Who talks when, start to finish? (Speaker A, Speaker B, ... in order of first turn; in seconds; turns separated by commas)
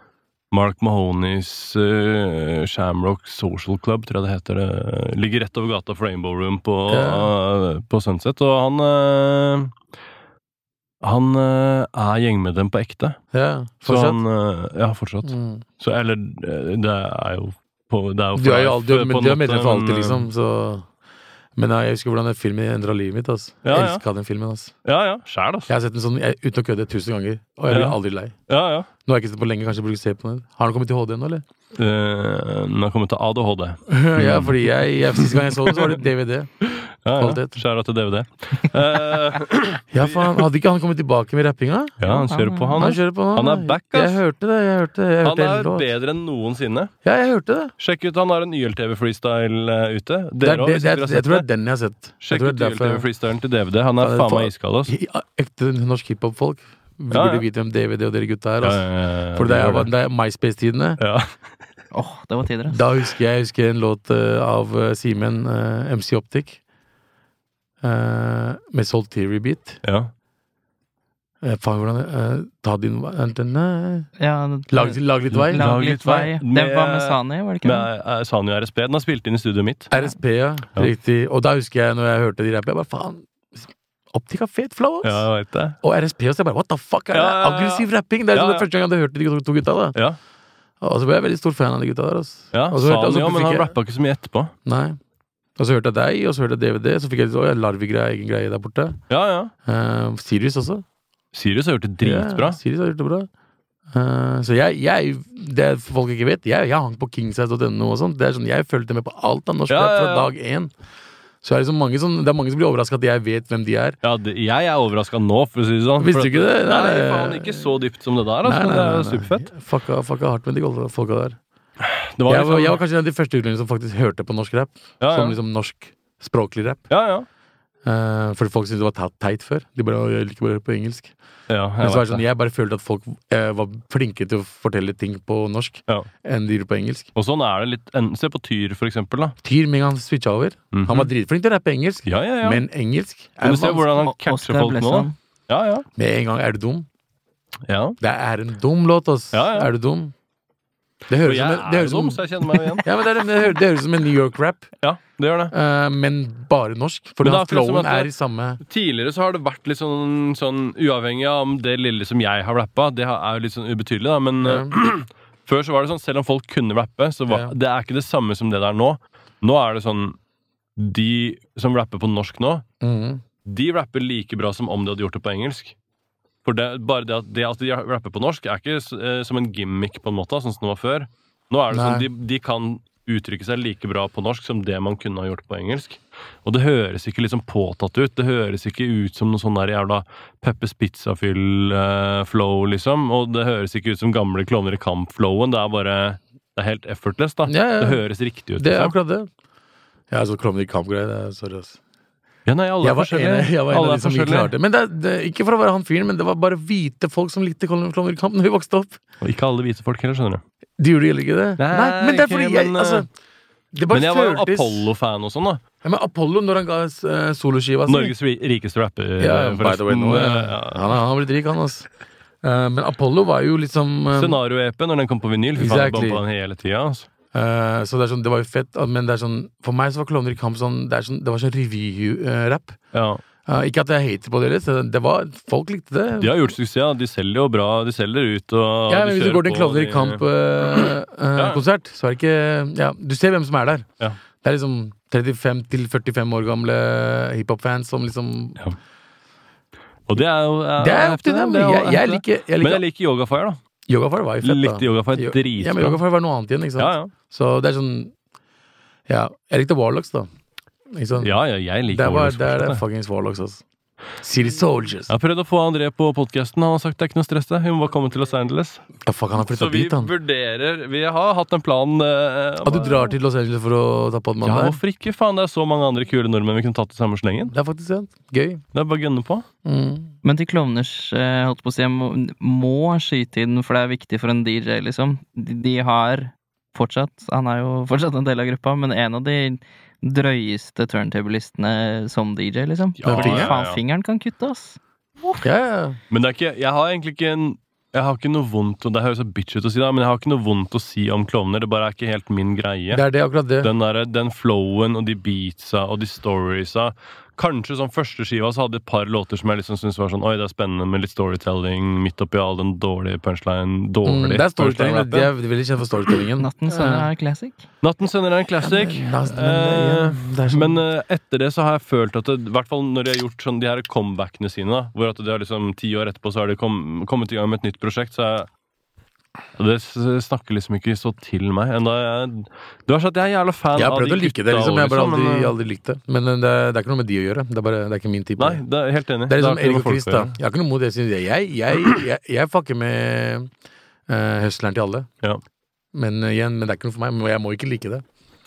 Speaker A: 0.5-9.7, Speaker B: 6.9-7.3, Speaker A: 11.0-13.2, Speaker B: 13.3-14.2, Speaker A: 13.8-20.3, Speaker B: 15.2-15.6, Speaker B: 18.3-20.9, Speaker B: 21.6-24.7, Speaker A: 23.6-24.0, Speaker A: 24.8-25.7, Speaker B: 25.7-28.3, Speaker A: 27.7-28.0, Speaker A: 28.5-28.9, Speaker B: 29.0-31.4, Speaker A: 31.7-34.6, Speaker B: 33.9-36.5, Speaker A: 35.1-36.0, Speaker A: 36.7-40.4, Speaker B: 37.1-37.6, Speaker B: 39.9-42.0, Speaker A: 42.0-44.2, Speaker C: 42.0-42.8, Speaker B: 42.8-45.9, Speaker A: 45.2-46.9, Speaker B: 47.0-47.7, Speaker A: 47.8-51.5, Speaker B: 50.4-53.0, Speaker A: 52.2-54.9, Speaker B: 54.0-61.0, Speaker A: 57.1-57.5, Speaker A: 58.6-59.9, Speaker A: 61.0-61.4, Speaker C: 61.9-62.8, Speaker B: 62.7-66.6, Speaker B: 67.8-69.8, Speaker A: 69.8-70.1, Speaker B: 71.4-74.1, Speaker C: 74.2-77.9, Speaker B: 74.7-75.7, Speaker A: 75.3-79.9, Speaker B: 79.9-85.3, Speaker A: 85.0-85.8, Speaker B: 85.8-90.0, Speaker A: 87.1-88.7, Speaker B: 90.8-93.7, Speaker A: 92.5-94.5, Speaker B: 94.6-95.0, Speaker B: 95.6-99.0, Speaker A: 99.1-99.5, Speaker B: 99.6-100.8, Speaker A: 101.3-102.6, Speaker B: 102.0-103.3, Speaker B: 103.9-110.7, Speaker A: 109.7-110.3, Speaker B: 111.4-114.0, Speaker A: 114.0-119.5, Speaker B: 116.0-117.7, Speaker B: 118.4-121.4, Speaker A: 121.8-122.8, Speaker B: 122.3-126.8, Speaker A: 125.0-125.4, Speaker A: 126.9-127.3, Speaker B: 127.8-131.1, Speaker A: 131.5-132.2, Speaker B: 131.8-137.1, Speaker A: 137.1-139.4, Speaker B: 139.4-143.9, Speaker A: 140.7-141.1, Speaker A: 142.0-142.6, Speaker A: 143.4-145.8, Speaker C: 144.0-145.1, Speaker B: 145.9-146.9, Speaker A: 147.7-148.0, Speaker B: 148.0-150.1, Speaker A: 149.3-149.7, Speaker B: 151.1-154.7, Speaker A: 151.2-152.9, Speaker A: 154.8-155.5, Speaker B: 155.5-158.6, Speaker A: 157.2-158.1, Speaker A: 158.6-170.2, Speaker B: 164.4-164.7, Speaker B: 167.3-167.5, Speaker A: 170.8-172.6, Speaker B: 172.8-173.2, Speaker A: 173.4-175.8, Speaker A: 176.4-198.9, Speaker B: 181.7-182.1, Speaker B: 197.5-198.0, Speaker B: 198.6-199.3, Speaker B: 200.1-201.8, Speaker A: 202.4-204.5, Speaker B: 202.8-209.0, Speaker A: 209.2-210.4, Speaker B: 210.8-213.1, Speaker A: 211.6-213.1, Speaker B: 213.7-214.9, Speaker A: 213.9-215.6, Speaker B: 215.8-218.1, Speaker A: 217.9-220.9, Speaker B: 219.2-221.9, Speaker B: 222.4-224.4, Speaker A: 224.1-227.1, Speaker B: 225.6-226.2, Speaker B: 227.3-232.8, Speaker A: 232.9-233.2, Speaker B: 233.4-236.3, Speaker A: 236.2-241.6, Speaker B: 238.9-243.9, Speaker B: 244.4-248.6, Speaker A: 250.1-253.6, Speaker B: 250.8-252.8, Speaker B: 253.9-258.1, Speaker A: 254.4-256.0, Speaker A: 256.8-257.1, Speaker B: 259.1-260.3, Speaker B: 260.9-261.3, Speaker A: 261.2-262.8, Speaker B: 261.9-263.6, Speaker B: 264.2-265.1, Speaker A: 265.1-268.8, Speaker B: 269.0-270.1, Speaker A: 269.4-273.1, Speaker B: 272.6-274.8, Speaker A: 274.4-277.5, Speaker B: 277.5-278.6, Speaker A: 278.7-279.4, Speaker B: 279.6-280.1, Speaker C: 280.2-295.4, Speaker A: 293.0-293.8, Speaker B: 293.1-293.5, Speaker B: 295.4-296.0, Speaker A: 296.1-303.0, Speaker B: 302.9-303.7, Speaker A: 303.6-315.3, Speaker B: 314.0-317.1, Speaker C: 316.4-317.6, Speaker A: 317.8-328.5, Speaker B: 318.6-320.8, Speaker A: 329.6-335.5, Speaker B: 333.7-338.6, Speaker A: 338.4-340.4, Speaker B: 339.3-343.5, Speaker B: 344.1-345.1, Speaker B: 345.9-348.0